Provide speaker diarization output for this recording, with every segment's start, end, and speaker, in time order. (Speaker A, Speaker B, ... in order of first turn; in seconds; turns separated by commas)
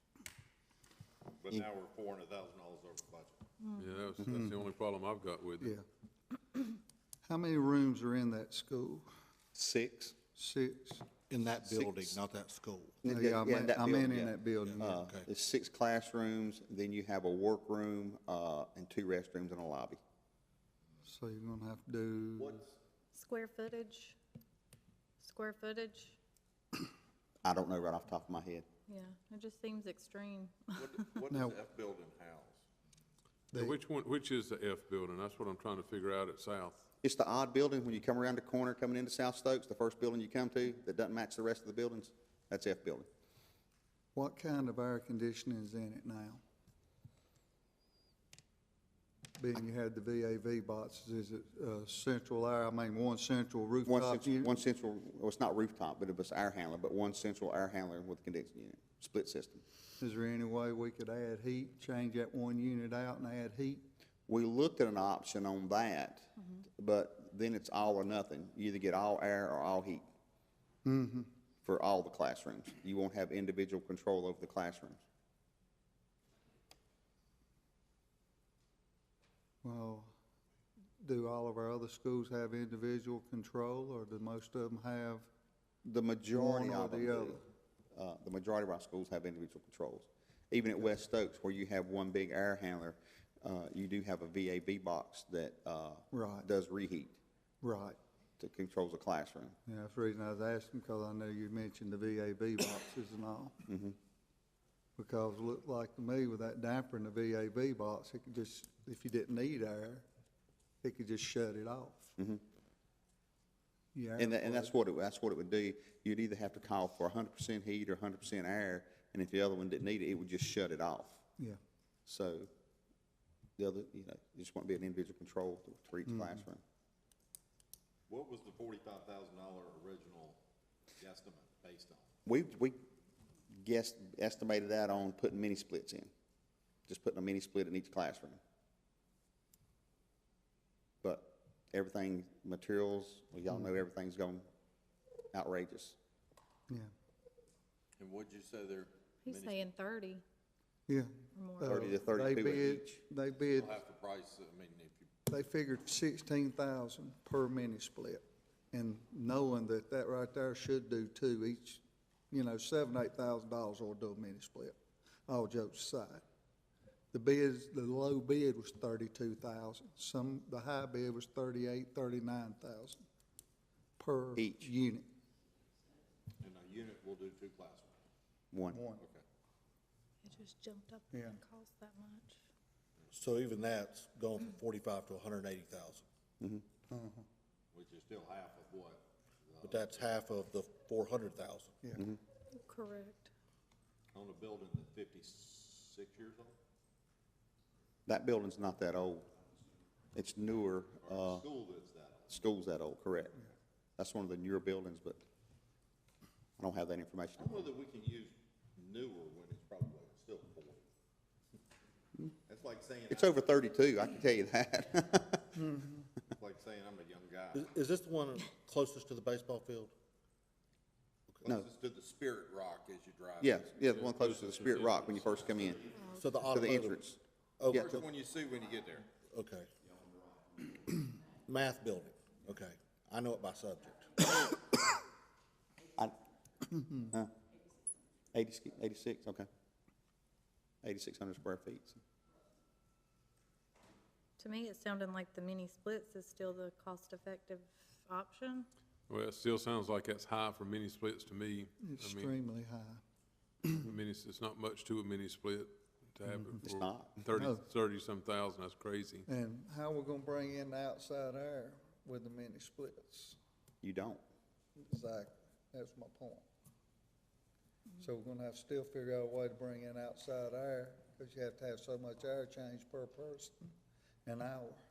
Speaker A: 1.4-3.4, Speaker B: 3.6-3.9, Speaker C: 3.8-5.7, Speaker D: 5.6-5.8, Speaker D: 7.2-9.1, Speaker E: 9.5-10.1, Speaker D: 10.3-11.1, Speaker F: 11.3-13.0, Speaker E: 11.6-12.2, Speaker E: 13.0-20.0, Speaker D: 13.1-15.0, Speaker F: 14.7-15.3, Speaker D: 21.0-22.6, Speaker B: 23.1-24.2, Speaker B: 25.2-26.2, Speaker E: 27.4-28.6, Speaker B: 28.9-31.0, Speaker A: 30.7-32.6, Speaker D: 31.3-31.6, Speaker D: 33.5-33.8, Speaker C: 33.5-36.8, Speaker E: 37.0-43.1, Speaker D: 44.1-46.4, Speaker D: 49.4-54.5, Speaker E: 53.9-59.6, Speaker D: 60.0-63.8, Speaker E: 64.3-70.0, Speaker D: 70.8-71.3, Speaker E: 71.6-75.0, Speaker D: 79.6-80.1, Speaker D: 81.0-85.3, Speaker E: 85.8-97.2, Speaker D: 86.3-87.4, Speaker D: 96.1-96.5, Speaker D: 97.6-98.0, Speaker E: 98.4-99.5, Speaker D: 99.7-103.6, Speaker E: 103.7-104.0, Speaker D: 105.0-110.0, Speaker D: 110.8-112.2, Speaker D: 113.9-114.7, Speaker E: 114.2-121.2, Speaker E: 122.0-122.5, Speaker E: 123.6-126.6, Speaker D: 126.1-126.4, Speaker A: 128.1-130.4, Speaker A: 131.0-132.1, Speaker E: 132.2-132.8, Speaker E: 133.5-136.1, Speaker E: 136.9-138.4, Speaker E: 141.0-144.4, Speaker E: 145.3-145.9, Speaker A: 148.0-149.7, Speaker B: 149.2-150.2, Speaker D: 150.9-153.8, Speaker B: 151.3-151.9, Speaker E: 151.6-153.0, Speaker A: 153.3-155.1, Speaker D: 155.3-164.7, Speaker D: 165.3-166.2, Speaker D: 167.1-173.0, Speaker D: 174.0-175.1, Speaker E: 174.3-174.7, Speaker A: 176.4-177.9, Speaker E: 178.5-178.8, Speaker D: 178.7-179.0, Speaker B: 180.2-182.4, Speaker D: 181.1-181.4, Speaker F: 183.1-186.1, Speaker E: 186.4-186.6, Speaker D: 186.9-187.2, Speaker A: 187.7-190.2, Speaker F: 189.6-191.8, Speaker B: 192.6-193.3, Speaker A: 194.1-196.5, Speaker E: 198.1-199.3, Speaker E: 200.1-201.4, Speaker A: 201.0-202.5, Speaker E: 202.3-203.4, Speaker E: 204.0-205.2, Speaker E: 206.6-207.7, Speaker A: 207.4-210.8, Speaker A: 212.5-213.6, Speaker E: 213.1-215.6, Speaker D: 215.5-216.1, Speaker A: 216.3-217.7, Speaker F: 217.5-219.9, Speaker A: 221.4-225.3, Speaker E: 223.4-225.9, Speaker B: 225.9-226.3, Speaker F: 226.1-227.0, Speaker E: 226.4-227.2, Speaker F: 227.6-228.1, Speaker A: 227.7-229.1, Speaker E: 227.7-228.0, Speaker F: 229.2-229.7, Speaker F: 231.4-234.1, Speaker D: 236.7-237.0, Speaker E: 237.1-237.3, Speaker E: 238.3-239.5, Speaker E: 240.8-242.0, Speaker B: 244.4-248.7, Speaker C: 249.1-252.3, Speaker D: 251.8-253.0, Speaker C: 253.7-259.2, Speaker D: 256.2-256.6, Speaker E: 256.6-257.2, Speaker D: 257.3-257.6, Speaker D: 259.3-263.4, Speaker E: 263.8-264.2, Speaker D: 264.8-266.4, Speaker D: 268.0-273.7, Speaker D: 274.2-274.8